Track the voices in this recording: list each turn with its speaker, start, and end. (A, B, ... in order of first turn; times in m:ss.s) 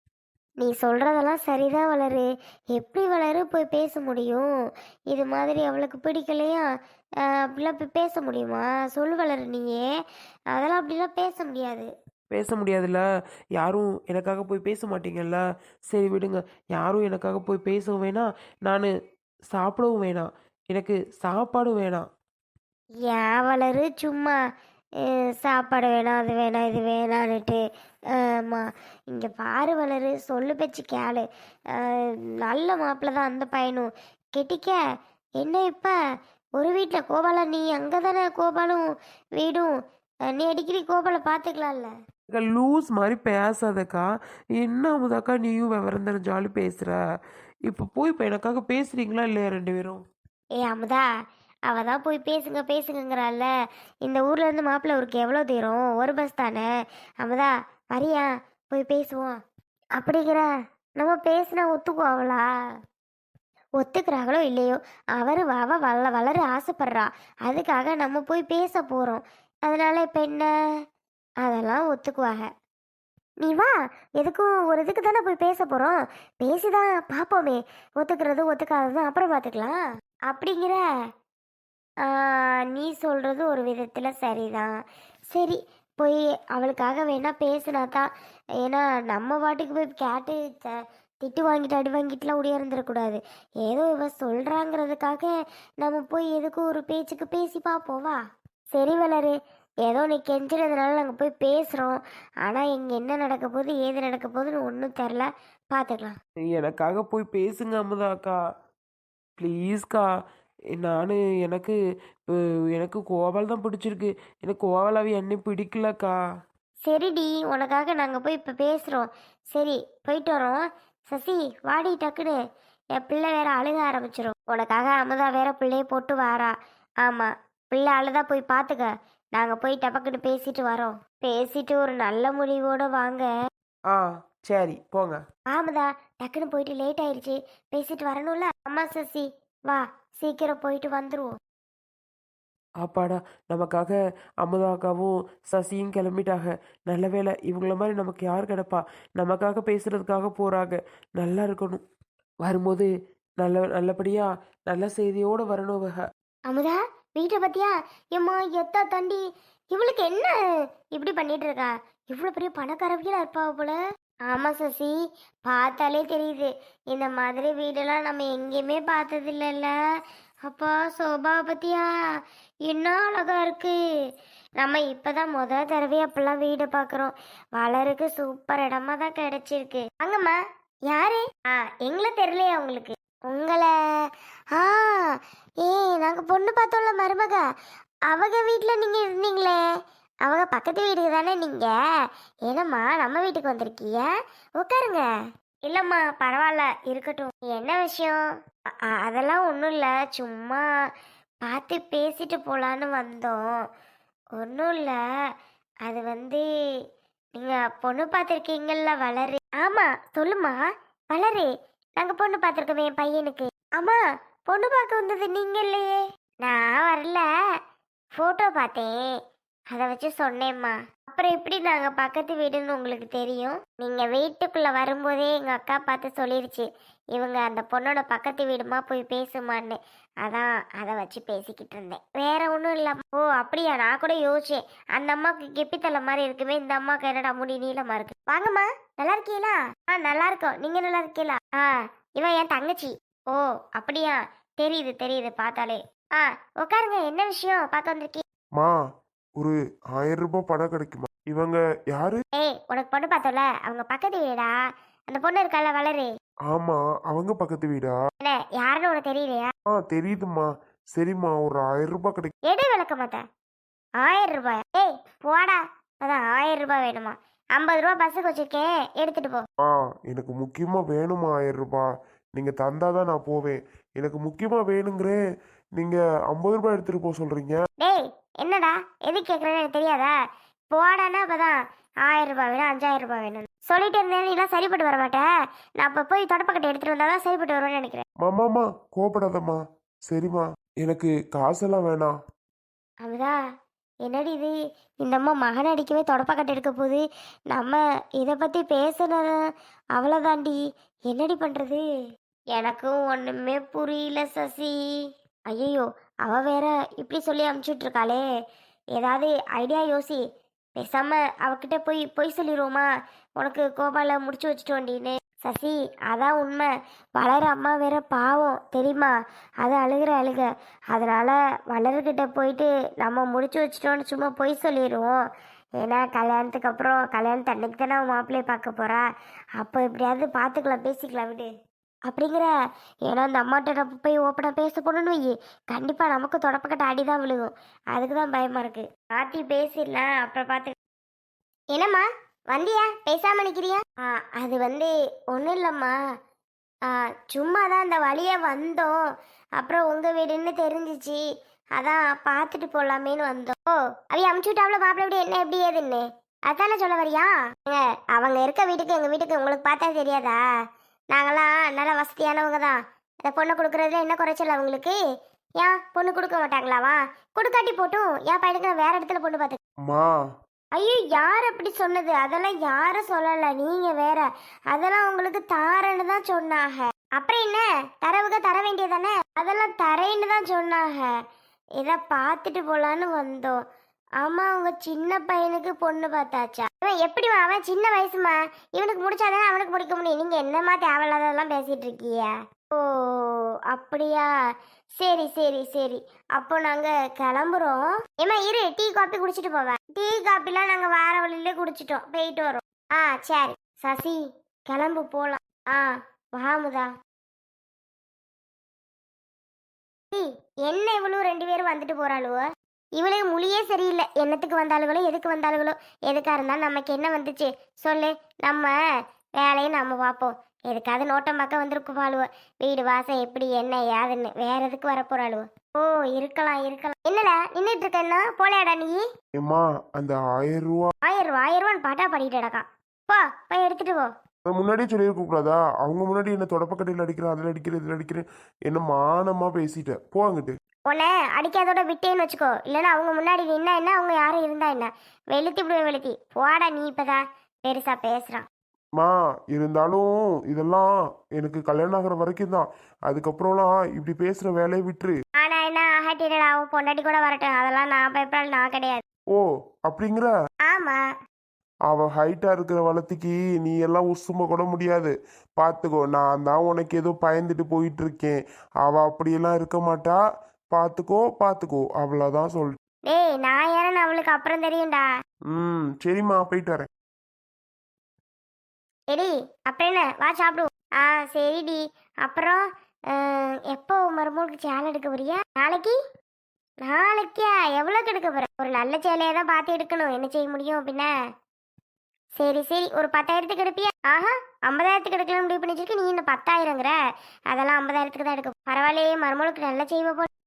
0:00.6-0:04.5 A
0:05.1-0:06.6 A
0:07.2-0:09.9 A
0:10.5-0:11.9 A
0:12.3-0:13.0 B
0:13.6-0:18.9 B
0:19.5-0:22.0 B
0:23.0-0:24.4 A
0:25.0-0:27.6 A
0:28.2-0:34.8 A
0:35.4-0:35.9 A
0:36.6-0:39.7 A
0:40.3-0:41.9 A
0:42.3-0:44.0 B
0:44.6-0:47.0 B
0:47.7-0:50.0 B
0:50.6-0:51.1 A
0:51.7-0:53.5 A
0:54.0-0:56.7 A
0:57.2-0:59.4 A
1:00.0-1:00.4 A
1:01.0-1:02.4 A
1:03.8-1:10.5 A
1:11.4-1:12.5 A
1:13.4-1:20.8 A
1:22.0-1:24.8 A
1:25.3-1:28.1 A
1:28.6-1:38.2 A
1:38.7-1:46.2 A
1:46.5-1:48.4 B
1:49.4-1:50.1 B
1:50.8-1:51.8 B
1:52.7-1:56.2 B
1:56.8-2:02.4 A
2:03.0-2:13.3 A
2:13.9-2:15.2 B
2:15.5-2:21.4 A
2:22.8-2:31.8 B
2:32.4-2:32.9 B
2:33.4-2:36.0 B
2:36.5-2:49.7 A
2:50.4-2:51.9 A
2:52.6-2:53.8 A
2:54.6-3:07.4 A
3:08.1-3:09.6 A
3:10.2-3:11.7 A
3:12.5-3:15.0 A
3:15.7-3:18.2 A
3:18.9-3:20.6 A
3:21.4-3:23.5 A
3:24.4-3:25.0 A
3:25.8-3:26.4 A
3:27.4-3:37.2 A
3:38.1-3:39.1 A
3:39.7-4:08.2 A
4:09.4-4:12.2 C
4:12.4-4:14.5 A
4:15.1-4:16.1 A
4:16.5-4:18.0 C
4:18.2-4:19.5 A
4:19.7-4:22.3 C
4:22.5-4:23.2 A
4:24.0-4:29.4 A
4:29.6-4:35.2 C
4:35.8-4:37.6 C
4:37.8-4:40.1 A
4:40.7-4:45.3 A
4:45.8-4:48.0 A
4:48.2-4:52.1 C
4:53.0-4:53.4 A
4:54.0-4:59.4 A
4:59.9-5:01.8 A
5:02.5-5:08.2 A
5:09.0-5:10.2 A
5:10.8-5:25.1 A
5:25.8-5:29.0 A
5:29.6-5:31.5 A
5:32.1-5:32.5 A
5:33.1-5:40.7 A
5:41.7-5:46.0 A
5:46.8-5:51.2 A
5:51.8-6:00.4 A
6:01.1-6:05.0 A
6:05.6-6:09.6 A
6:09.8-6:10.1 C
6:10.8-6:21.2 A
6:21.8-6:23.6 A
6:24.2-6:34.3 A
6:35.0-6:46.9 A
6:50.1-6:52.4 A
6:53.0-6:58.7 A
6:59.4-7:09.0 A
7:09.4-7:10.9 C
7:11.0-7:14.1 A
7:14.5-7:20.5 C
7:20.9-7:28.4 A
7:29.0-7:35.1 C
7:35.4-7:39.0 A
7:39.3-7:40.3 C
7:40.7-7:41.0 A
7:41.9-7:50.2 C
7:50.7-7:52.8 C
7:53.0-7:55.0 A
7:55.5-7:56.9 C
7:59.1-8:06.0 A
8:06.8-8:11.1 A
8:12.3-8:17.0 A
8:17.5-8:20.3 A